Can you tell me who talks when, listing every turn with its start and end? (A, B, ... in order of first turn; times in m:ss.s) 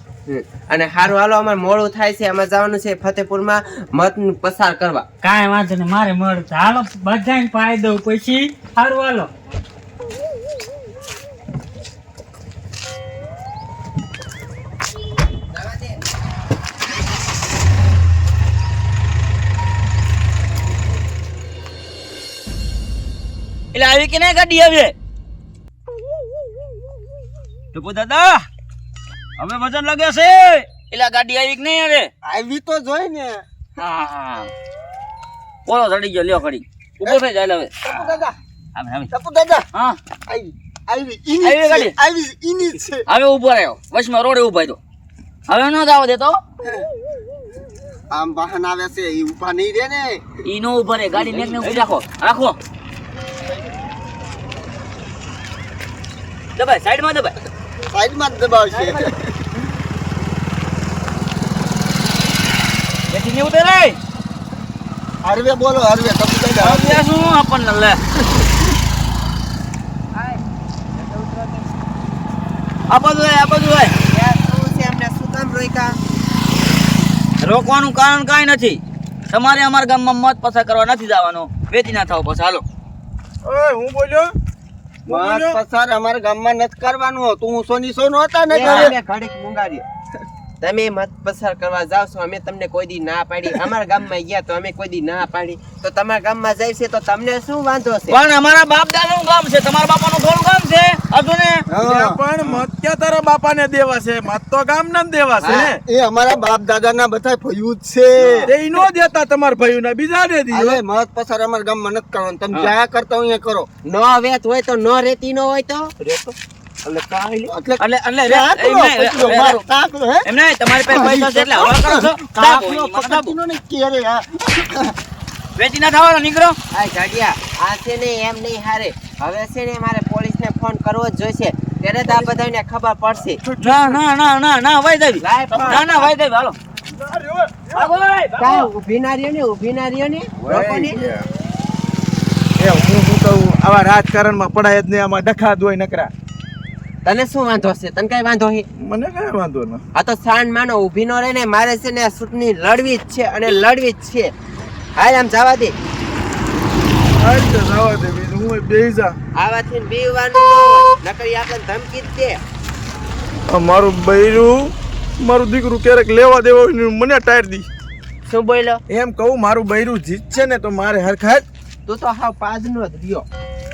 0:00.3-0:05.0 A
0:05.2-0:09.3 B
0:15.5-0:16.0 A
0:23.7-0:24.9 C
0:27.7-0:28.5 C
0:29.4-0:32.1 C
0:32.2-0:33.4 D
0:33.8-0:34.5 C
0:35.6-0:38.0 C
0:37.8-0:38.4 D
0:38.8-0:39.1 C
0:39.1-0:39.6 D
0:39.7-0:40.0 C
0:40.3-0:43.0 D
0:41.4-0:41.9 C
0:43.1-0:44.8 C
0:45.5-0:46.4 C
0:48.1-0:50.2 D
0:50.4-0:52.6 C
0:56.6-0:57.3 C
0:57.9-0:59.3 D
0:58.7-0:59.1 C
1:03.1-1:04.0 C
1:05.2-1:07.0 D
1:06.6-1:08.0 C
1:10.1-1:10.4 A
1:10.9-1:11.7 A
1:12.9-1:13.9 C
1:14.1-1:15.9 A
1:17.4-1:22.6 C
1:23.4-1:24.3 E
1:25.1-1:25.6 E
1:25.1-1:28.9 D
1:28.5-1:29.8 A
1:28.6-1:28.9 C
1:30.6-1:38.2 A
1:38.1-1:41.6 C
1:41.7-1:42.6 D
1:41.8-1:45.8 E
1:45.4-1:45.7 A
1:45.9-1:48.5 D
1:48.4-1:50.8 E
1:50.5-1:53.7 D
1:53.8-1:55.9 A
1:56.8-1:57.5 E
1:57.5-2:00.3 D
1:57.8-1:59.6 C
2:00.2-2:03.3 C
2:00.8-2:05.0 D
2:05.6-2:06.6 C
2:06.7-2:13.4 A
2:13.4-2:14.0 E
2:13.6-2:16.6 C
2:15.2-2:16.1 A
2:15.5-2:15.8 E
2:16.9-2:17.9 E
2:17.7-2:18.7 C
2:18.4-2:21.0 A
2:20.4-2:21.3 E
2:22.6-2:26.1 E
2:27.0-2:28.6 A
2:28.7-2:29.8 E
2:29.9-2:34.3 A
2:35.0-2:35.7 A
2:37.2-2:39.2 E
2:39.4-2:42.4 A
2:43.5-2:47.7 E
2:48.3-2:48.8 A
2:48.9-2:51.4 E
2:51.8-2:53.2 A